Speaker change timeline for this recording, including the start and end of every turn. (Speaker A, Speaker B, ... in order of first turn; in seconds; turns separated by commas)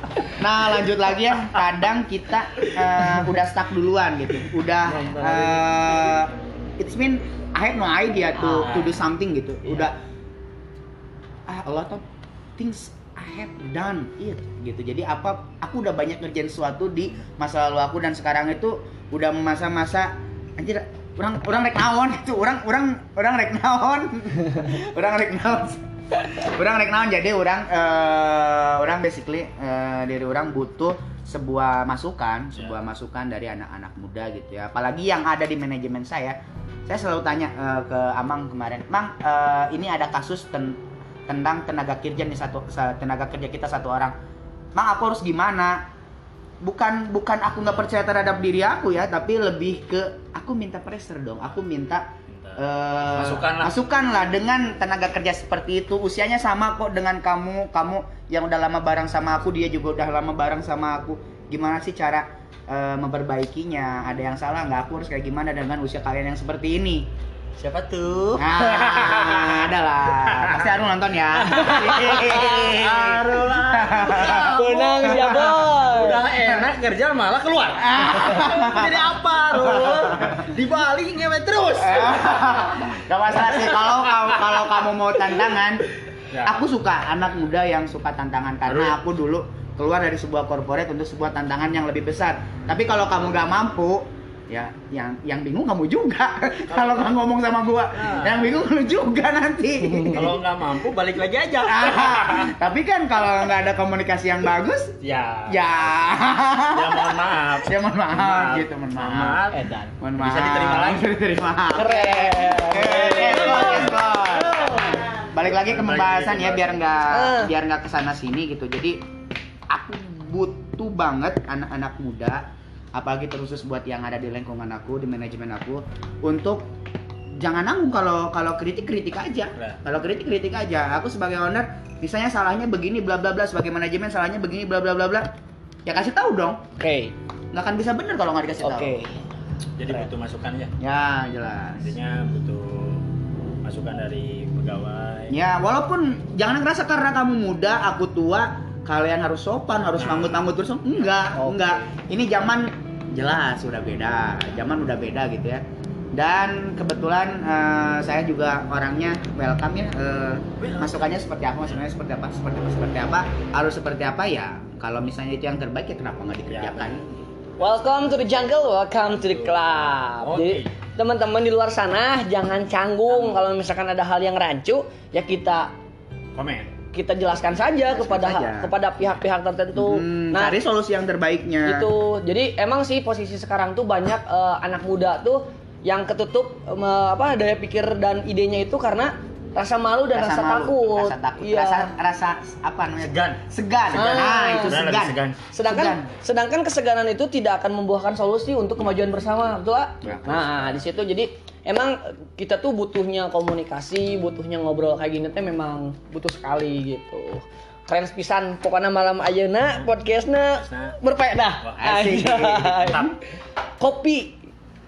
Speaker A: 0.3-10.0, Speaker B: 4.8-6.4, Speaker B: 8.5-9.0, Speaker A: 11.5-12.1, Speaker A: 12.6-44.2, Speaker A: 44.8-45.9, Speaker A: 46.6-67.1, Speaker B: 52.3-53.7, Speaker B: 67.6-69.7, Speaker A: 68.4-75.6, Speaker B: 70.3-70.6, Speaker B: 71.4-82.8, Speaker C: 71.5-72.1, Speaker C: 74.2-76.2, Speaker A: 77.8-80.5, Speaker A: 81.8-85.9, Speaker B: 83.7-84.6, Speaker B: 86.3-86.7, Speaker A: 86.4-100.4, Speaker B: 88.7-89.0, Speaker B: 96.7-97.2, Speaker B: 98.0-98.6, Speaker B: 100.1-102.5, Speaker A: 101.7-105.0, Speaker B: 105.0-109.7, Speaker A: 105.5-109.5, Speaker C: 109.5-109.9, Speaker A: 110.0-119.0, Speaker B: 110.2-111.1, Speaker C: 111.7-115.1, Speaker B: 112.8-117.1, Speaker C: 117.1-117.5, Speaker A: 119.7-126.7, Speaker A: 127.4-135.3, Speaker A: 135.9-136.6, Speaker C: 136.8-137.1, Speaker A: 137.5-139.0, Speaker C: 138.6-139.2, Speaker B: 139.8-140.8, Speaker A: 140.8-141.9, Speaker B: 141.8-143.0, Speaker B: 143.6-145.4, Speaker A: 145.3-155.6, Speaker B: 150.0-150.5, Speaker C: 151.3-151.8, Speaker A: 156.1-167.3, Speaker B: 160.6-161.2, Speaker B: 166.5-167.0, Speaker C: 167.6-175.7, Speaker B: 169.0-170.7, Speaker B: 173.1-173.4, Speaker B: 176.3-176.7, Speaker C: 176.9-180.6, Speaker A: 177.8-178.7, Speaker A: 179.8-181.9, Speaker C: 181.7-191.9, Speaker A: 190.1-196.1, Speaker B: 193.0-193.4, Speaker C: 193.9-194.8, Speaker B: 193.9-195.4, Speaker C: 195.5-213.2, Speaker A: 200.0-200.6, Speaker B: 200.0-200.7, Speaker B: 210.5-211.0, Speaker B: 211.6-212.1, Speaker A: 211.8-213.1, Speaker B: 212.7-213.1, Speaker C: 213.8-214.4